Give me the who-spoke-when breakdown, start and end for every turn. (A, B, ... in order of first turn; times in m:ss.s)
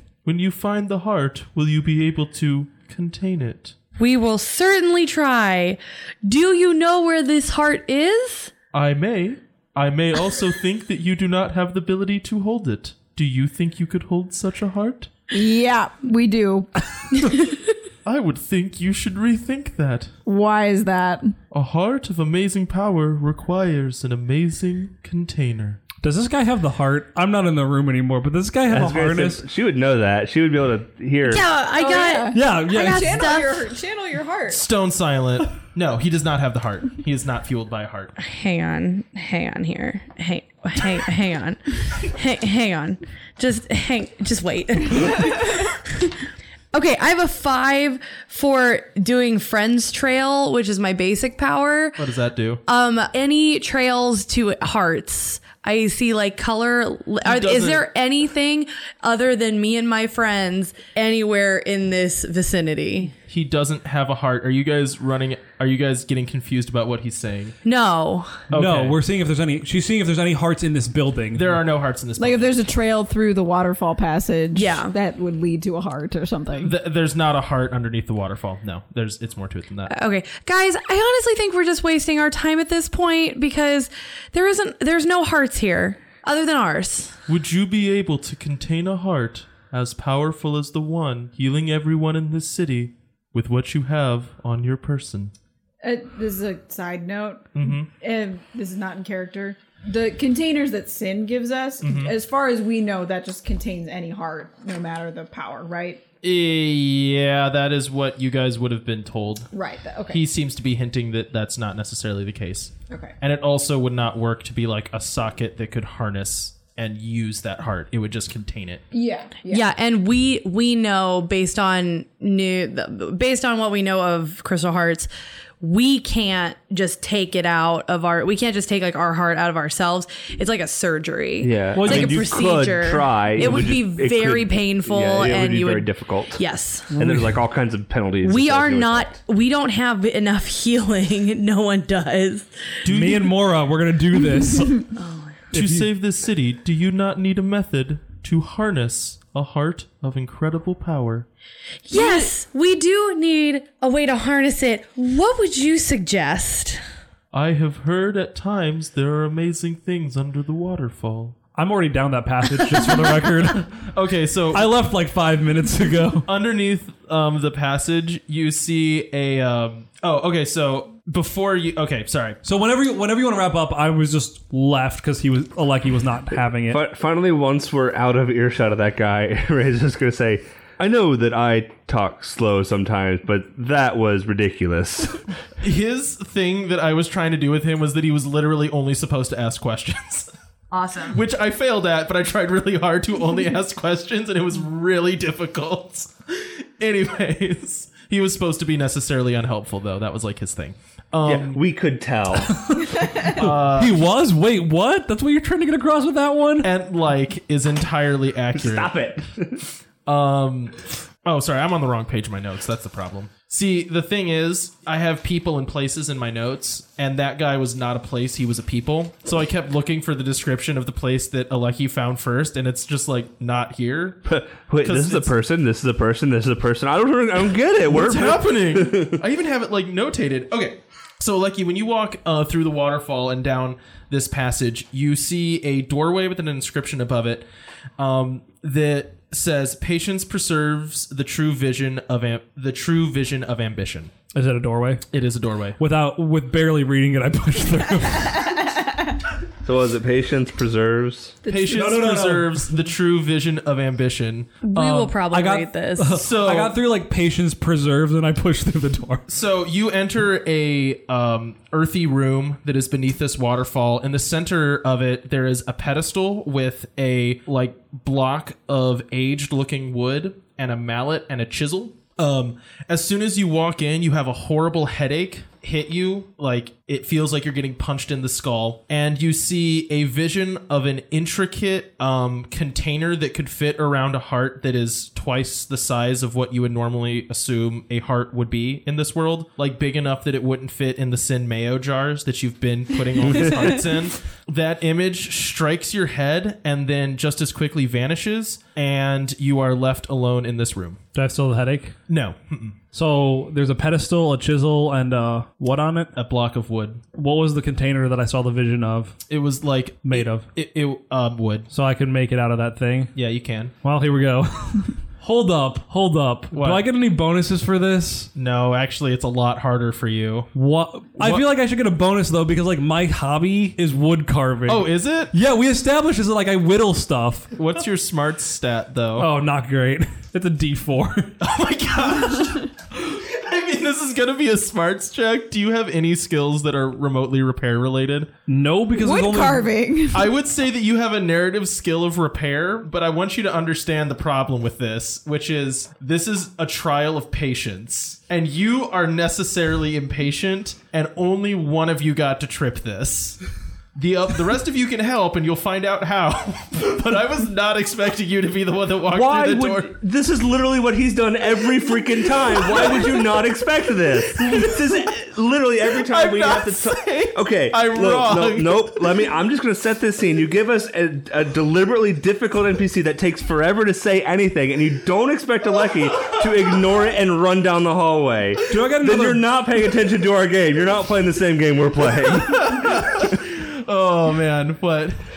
0:00.2-0:03.7 A
0:04.0-0:08.5 B
0:08.7-0:15.1 A
0:15.3-0:16.7 C
0:17.1-0:17.6 B
0:18.0-0:20.1 A
0:20.2-0:21.3 C
0:21.5-0:25.8 A
0:26.0-0:29.4 D
0:28.7-0:31.4 E
0:31.2-0:33.6 B
0:31.8-0:34.6 C
0:32.3-0:33.2 D
0:34.5-0:38.2 A
0:38.2-0:52.1 B
0:52.0-0:52.6 A
0:52.7-1:03.1 B
0:57.2-0:57.8 A
1:03.3-1:07.6 A
1:07.6-1:08.5 B
1:08.5-1:09.0 A
1:08.5-1:11.6 D
1:11.3-1:12.6 A
1:12.2-1:16.7 C
1:14.5-1:14.9 B
1:16.6-1:19.9 A
1:19.9-1:27.2 B
1:27.3-1:35.3 A
1:35.8-1:46.0 C
1:37.5-1:37.9 A
1:41.8-1:42.1 A
1:46.2-1:49.5 A
1:49.5-1:50.2 C
1:50.1-1:58.8 A
1:52.9-1:53.1 C
1:58.9-1:59.7 C
1:59.5-2:05.1 B
2:05.6-2:16.9 B
2:11.4-2:16.4 E
2:11.7-2:12.2 D
2:13.4-2:13.7 D
2:16.9-2:17.3 D
2:17.0-2:19.2 E
2:18.2-2:22.7 B
2:22.8-2:23.3 A
2:22.9-2:25.0 D
2:25.0-2:25.4 B
2:25.5-2:25.9 D
2:25.5-2:31.2 A
2:31.9-2:36.8 B
2:31.9-2:32.3 C
2:37.3-2:41.4 A
2:41.5-2:43.8 D
2:43.8-2:44.7 A
2:44.5-2:46.3 D
2:46.2-2:52.4 A
2:52.4-2:56.8 D
2:56.7-3:05.2 E
3:05.6-3:10.3 A
3:10.7-3:11.2 B
3:11.0-3:21.6 A
3:21.2-3:22.6 E
3:22.4-3:26.7 D
3:23.2-3:24.0 A
3:26.6-3:28.9 A
3:28.5-3:29.6 E
3:30.0-3:44.2 A
3:44.2-3:49.2 E
3:44.8-3:45.3 A
3:47.8-3:57.4 A
3:58.0-4:04.1 A
4:04.3-4:05.0 D
4:05.1-4:05.8 A
4:05.8-4:08.7 D
4:09.6-4:11.4 E
4:11.4-4:11.9 C
4:11.4-4:15.1 A
4:11.7-4:12.7 D
4:14.6-4:16.2 B
4:15.2-4:19.3 D
4:16.1-4:16.8 A
4:19.3-5:01.0 A
4:53.2-4:53.7 E
5:01.1-5:02.0 D
5:02.1-5:02.8 A
5:02.9-5:06.1 D
5:06.1-5:07.0 A
5:07.1-5:09.2 D
5:09.3-5:11.7 A
5:10.0-5:10.5 D
5:11.7-5:13.1 D
5:13.1-5:13.7 A
5:13.8-5:18.3 D
5:16.5-5:16.8 A
5:18.3-5:20.5 A
5:20.5-5:27.5 D
5:21.2-5:21.4 A
5:24.7-5:25.3 A
5:27.5-5:29.3 A
5:29.2-5:31.4 D
5:31.4-5:38.3 A
5:38.5-5:39.7 D
5:39.0-5:40.3 C
5:40.1-5:53.4 A
5:53.9-5:59.9 A
5:59.1-6:23.1 E
6:02.5-6:03.4 A
6:04.3-6:04.8 A
6:05.9-6:09.1 A
6:18.7-6:19.4 D
6:22.2-6:25.2 A